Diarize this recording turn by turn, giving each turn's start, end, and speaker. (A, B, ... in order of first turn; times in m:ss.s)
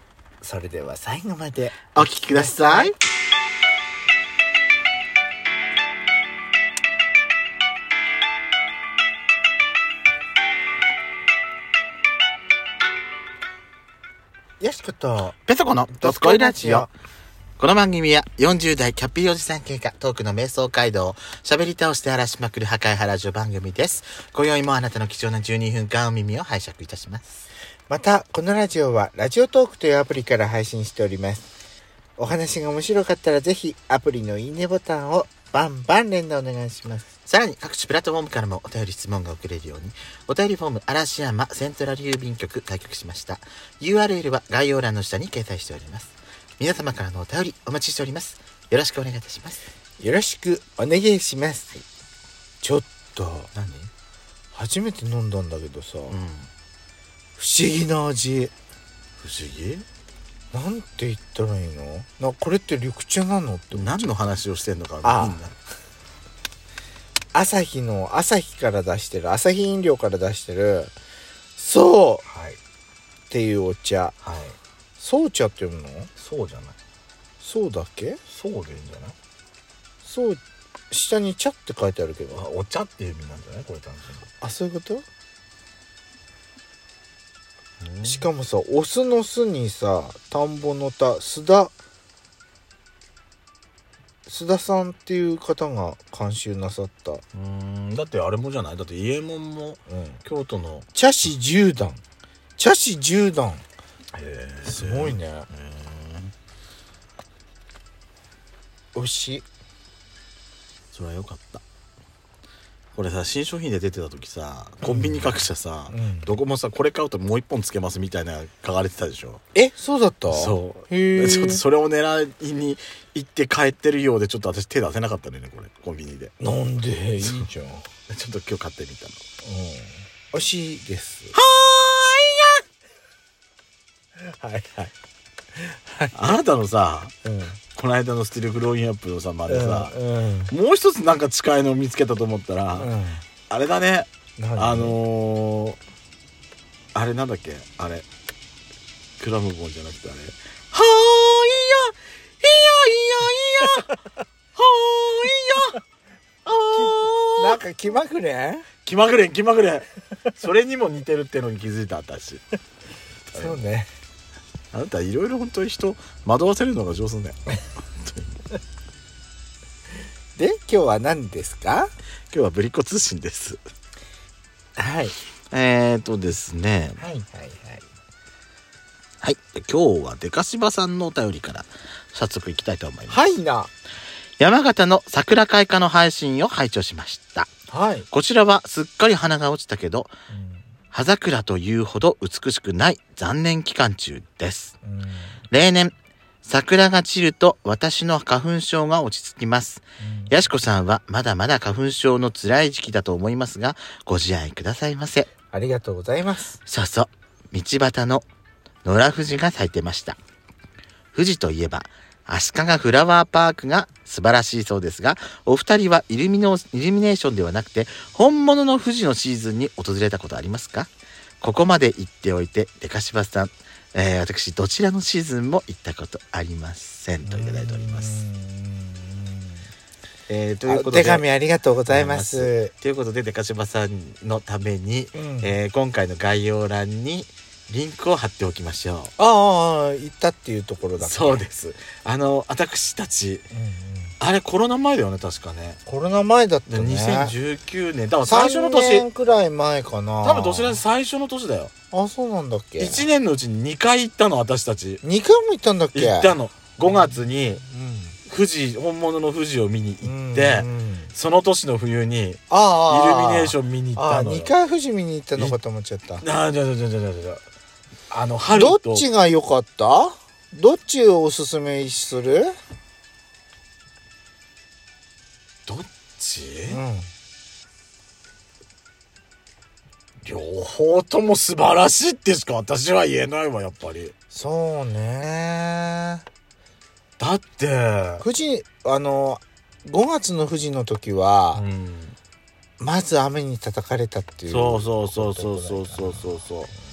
0:00.4-0:02.9 A
0:01.9-0:03.0 B
0:14.6-0:15.4 A
0:15.4-0:16.9 B
0:16.0-0:16.9 A
0:17.6-0:27.2 B
0:27.9-0:31.5 A
0:32.2-0:37.1 A
0:37.2-0:49.6 B
0:50.0-0:51.8 A
0:52.6-0:53.5 A
0:53.5-0:53.9 B
0:54.5-0:56.2 A
0:56.1-0:56.5 B
0:57.4-0:58.5 A
0:59.2-0:59.8 B
1:00.5-1:04.1 A
1:03.7-1:05.5 B
1:05.0-1:05.4 A
1:07.3-1:10.9 A
1:11.6-1:12.2 A
1:12.2-1:12.6 B
1:13.3-1:14.2 A
1:14.2-1:14.6 B
1:15.0-1:16.1 A
1:16.2-1:16.7 B
1:17.4-1:18.2 A
1:18.3-1:19.1 B
1:20.0-1:22.4 A
1:22.3-1:24.3 B
1:24.4-1:25.0 A
1:27.8-1:28.2 B
1:28.0-1:31.7 A
1:34.2-1:37.2 A
1:37.3-1:40.9 B
1:39.9-1:40.2 A
1:40.9-1:42.0 A
1:42.6-1:43.6 A
1:44.1-1:46.3 B
1:44.6-1:45.5 A
1:48.9-1:49.4 A
1:50.9-1:51.6 B
1:52.9-1:59.4 B
1:54.8-1:56.4 A
1:59.5-2:01.6 A
2:00.3-2:06.3 B
2:06.4-2:07.8 A
2:07.2-2:07.4 B
2:08.1-2:09.2 B
2:09.4-2:11.4 A
2:11.3-2:12.6 B
2:14.2-2:14.9 A
2:15.5-2:16.4 A
2:16.1-2:17.1 B
2:17.2-2:17.6 A
2:17.7-2:20.0 B
2:19.5-2:20.5 A
2:20.5-2:22.9 B
2:22.8-2:23.2 A
2:23.5-2:25.8 B
2:24.4-2:25.0 A
2:26.9-2:28.0 B
2:29.2-2:33.9 B
2:34.5-2:35.8 B
2:36.4-2:37.6 B
2:36.7-2:38.7 A
2:38.8-2:42.4 B
2:43.3-2:43.7 B
2:43.3-2:43.9 A
2:44.7-2:47.4 B
2:48.0-2:48.4 B
2:50.4-2:51.9 A
2:52.3-2:53.6 B
2:54.8-2:55.2 A
2:55.5-2:57.0 B
2:57.0-2:57.8 A
2:59.2-3:03.2 B
3:03.1-3:03.7 A
3:04.4-3:07.5 B
3:07.7-3:08.1 A
3:08.1-3:10.1 B
3:10.3-3:10.6 A
3:10.9-3:14.7 B
3:14.8-3:15.3 A
3:15.5-3:25.3 B
3:20.0-3:20.4 A
3:25.5-3:26.6 A
3:26.6-3:28.2 B
3:28.8-3:30.2 B
3:31.1-3:40.9 B
3:41.4-3:48.2 B
3:47.2-3:49.7 A
3:50.3-3:51.2 B
3:50.6-3:52.7 A
3:51.9-3:59.1 B
3:55.1-3:55.6 A
3:59.2-4:01.4 A
4:01.0-4:03.5 B
4:03.5-4:04.2 A
4:04.2-4:05.8 B
4:05.8-4:07.3 A
4:06.7-4:09.0 B
4:08.2-4:10.8 A
4:10.2-4:11.7 B
4:11.9-4:13.1 A
4:12.8-4:15.0 B
4:15.0-4:16.3 A
4:15.9-4:17.6 B
4:16.8-4:18.2 A
4:18.2-4:24.5 B
4:20.0-4:21.1 A
4:22.5-4:26.2 A
4:26.2-4:27.4 B
4:28.1-4:29.0 B
4:28.5-4:32.6 A
4:35.6-4:36.8 B
4:36.7-4:37.1 A
4:40.2-4:44.1 B
4:44.3-4:46.2 A
4:47.2-4:48.2 B
4:48.2-4:51.6 A
4:51.5-4:52.2 B
4:52.8-4:56.7 A
4:54.5-4:56.7 B